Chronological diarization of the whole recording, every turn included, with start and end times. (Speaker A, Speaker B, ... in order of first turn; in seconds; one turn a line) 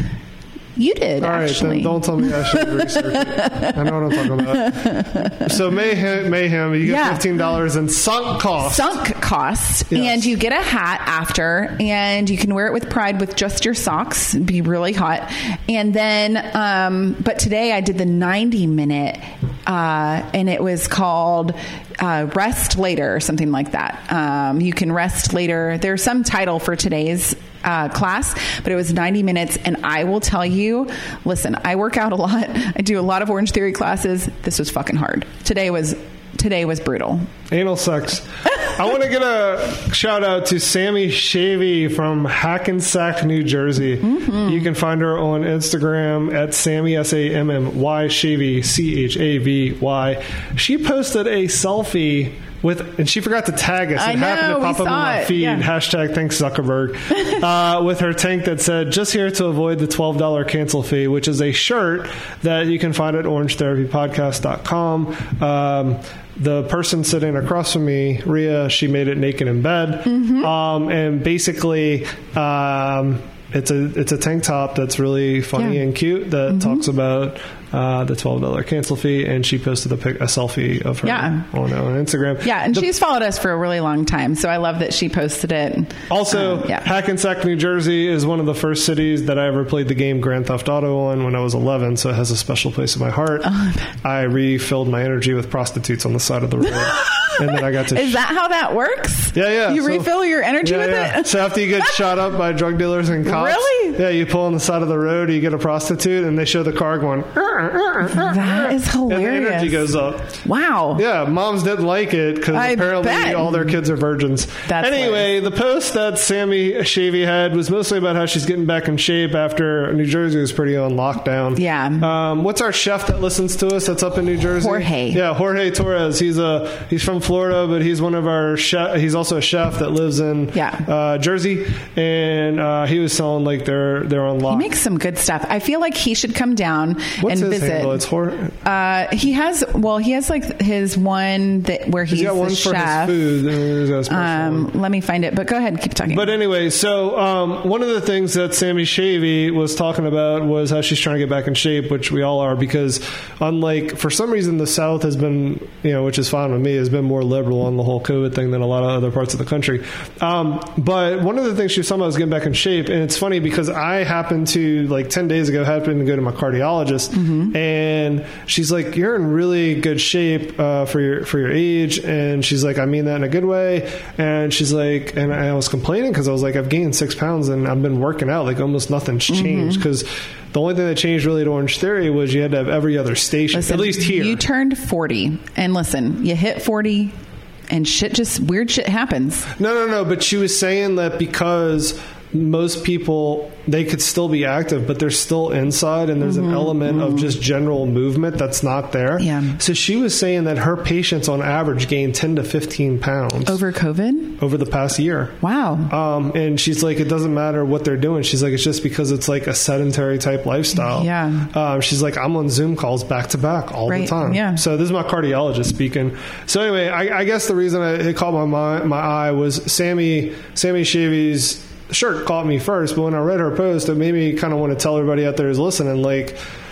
Speaker A: 0.8-5.6
Speaker B: 1.2-8.9
Speaker A: 6.8-7.2
Speaker A: 8.6-37.3
Speaker B: 9.9-10.3
Speaker B: 37.5-82.9
Speaker A: 44.0-44.7
Speaker A: 54.0-55.7
Speaker A: 70.1-70.5
Speaker A: 75.6-75.8
Speaker A: 76.5-76.8
Speaker A: 81.0-81.5
Speaker A: 82.4-86.8
Speaker B: 86.1-98.2
Speaker A: 93.4-93.8
Speaker A: 96.7-102.1
Speaker B: 99.3-110.3
Speaker A: 103.2-104.0
Speaker A: 108.0-111.0
Speaker B: 111.0-134.7
Speaker A: 112.5-113.8
Speaker A: 114.7-115.3
Speaker A: 121.5-122.1
Speaker A: 124.6-125.2
Speaker A: 130.5-130.8
Speaker A: 134.5-138.0
Speaker B: 137.2-138.6
Speaker A: 138.6-143.4
Speaker B: 142.1-144.7
Speaker A: 144.1-146.3
Speaker B: 146.1-184.4
Speaker A: 167.2-167.5
Speaker A: 179.3-179.8
Speaker A: 183.5-187.1
Speaker A: 187.7-189.5
Speaker B: 189.6-203.6
Speaker A: 196.2-197.3
Speaker A: 199.2-199.6
Speaker A: 203.5-204.4
Speaker B: 204.4-205.4
Speaker A: 205.4-205.9
Speaker B: 205.9-226.4
Speaker A: 210.7-211.5
Speaker A: 213.9-214.6